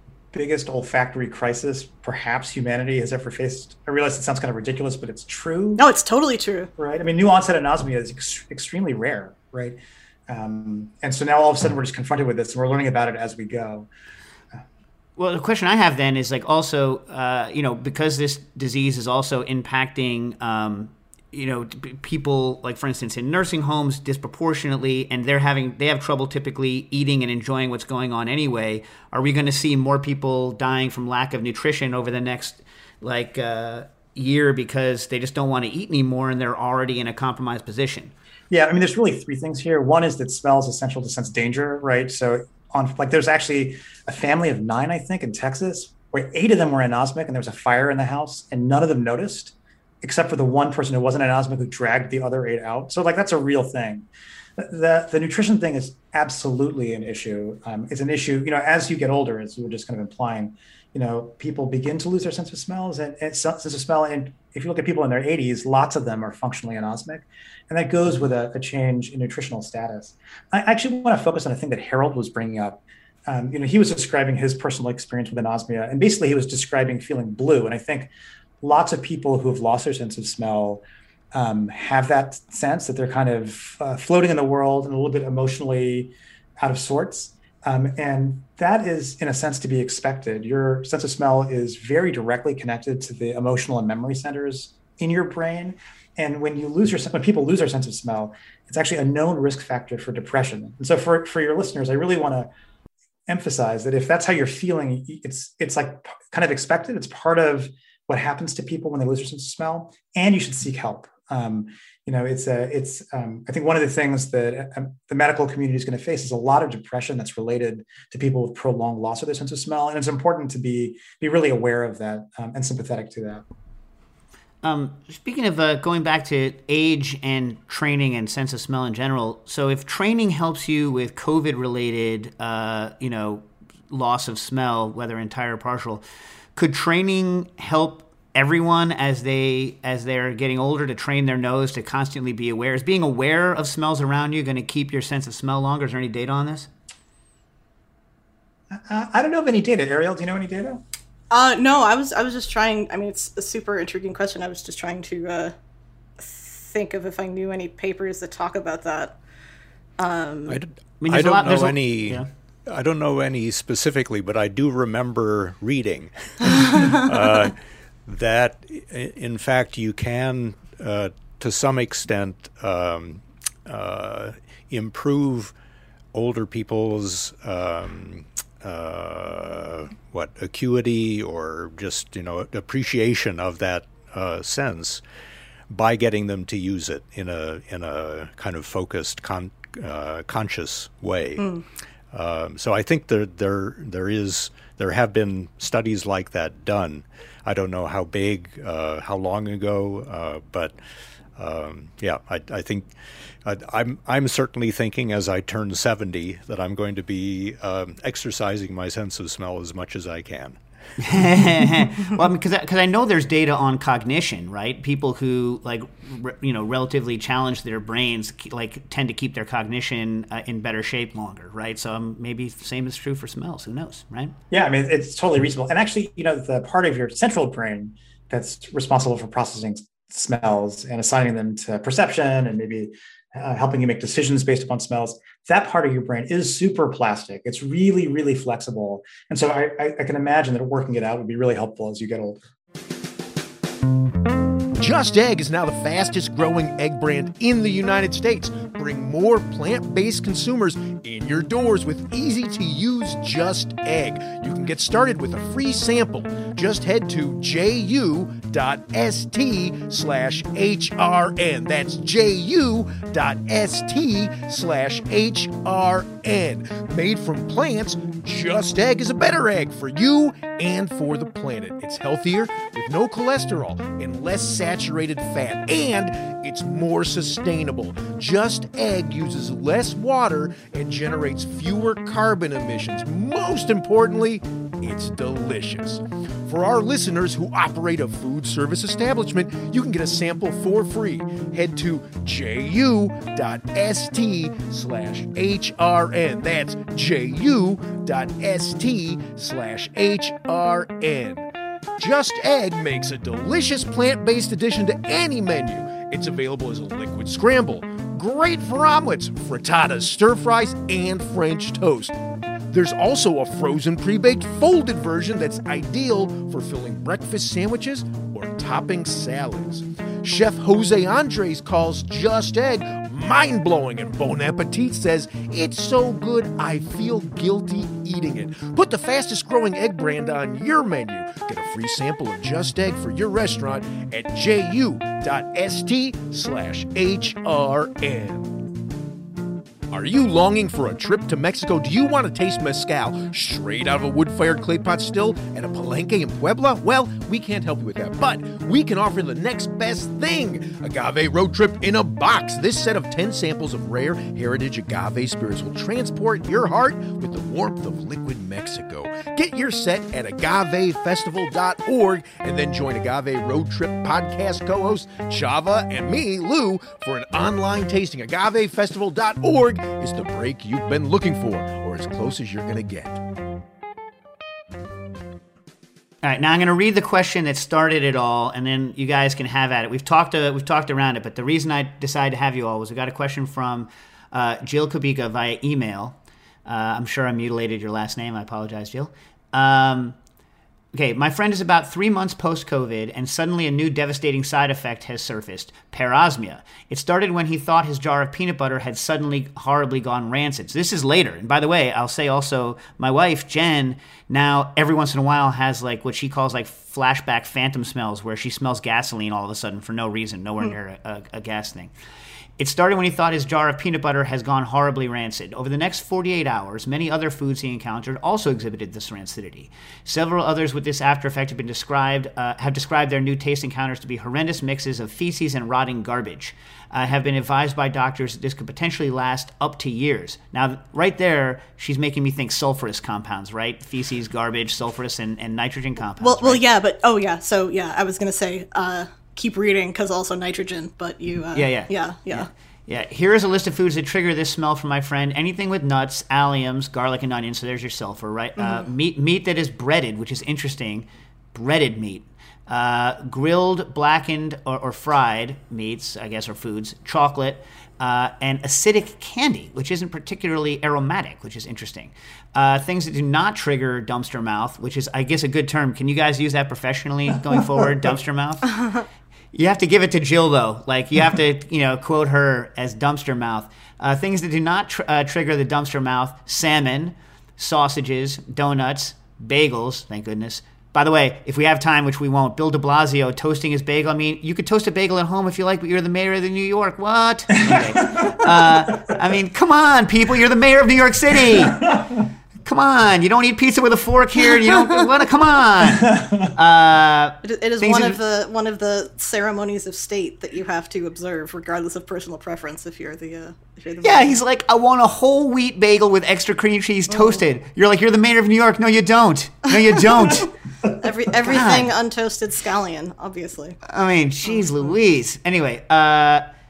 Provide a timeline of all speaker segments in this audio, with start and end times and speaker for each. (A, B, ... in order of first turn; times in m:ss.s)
0:00.3-0:05.8 A
0:05.8-0:06.7 B
0:06.8-0:13.9 A
0:15.2-0:38.1 C
0:38.5-1:42.5 A
1:43.3-2:03.4 A
2:04.6-2:16.0 C
2:16.6-2:26.7 C
2:28.7-2:30.8 A
2:31.3-2:35.5 B
2:36.2-2:39.2 B
2:40.0-2:40.6 B
2:40.5-2:55.5 D
2:41.0-2:42.3 C
2:56.1-3:05.0 D
3:05.7-3:11.5 D
3:11.4-3:11.6 B
3:12.1-3:20.8 D
3:21.4-3:22.9 D
3:23.4-3:30.6 D
3:31.0-3:44.3 C
3:44.5-4:02.4 A
4:04.8-5:01.5 E
5:02.0-5:12.1 E
5:12.7-5:38.6 E
5:39.9-6:13.2 E
6:16.2-6:30.2 C
6:30.9-6:51.9 C
6:52.6-7:16.6 C
7:16.2-7:22.5 B
7:21.5-7:48.8 C
7:28.6-7:28.9 B
7:49.5-8:11.9 C
8:07.6-8:08.5 A
8:11.8-8:12.1 A
8:12.6-8:18.2 C
8:15.9-8:16.5 A
8:17.4-8:24.3 B
8:24.0-8:30.5 C
8:30.2-8:30.5 B
8:31.0-8:33.8 B
8:31.5-8:31.9 C
8:33.9-8:36.5 C
8:34.4-8:34.9 B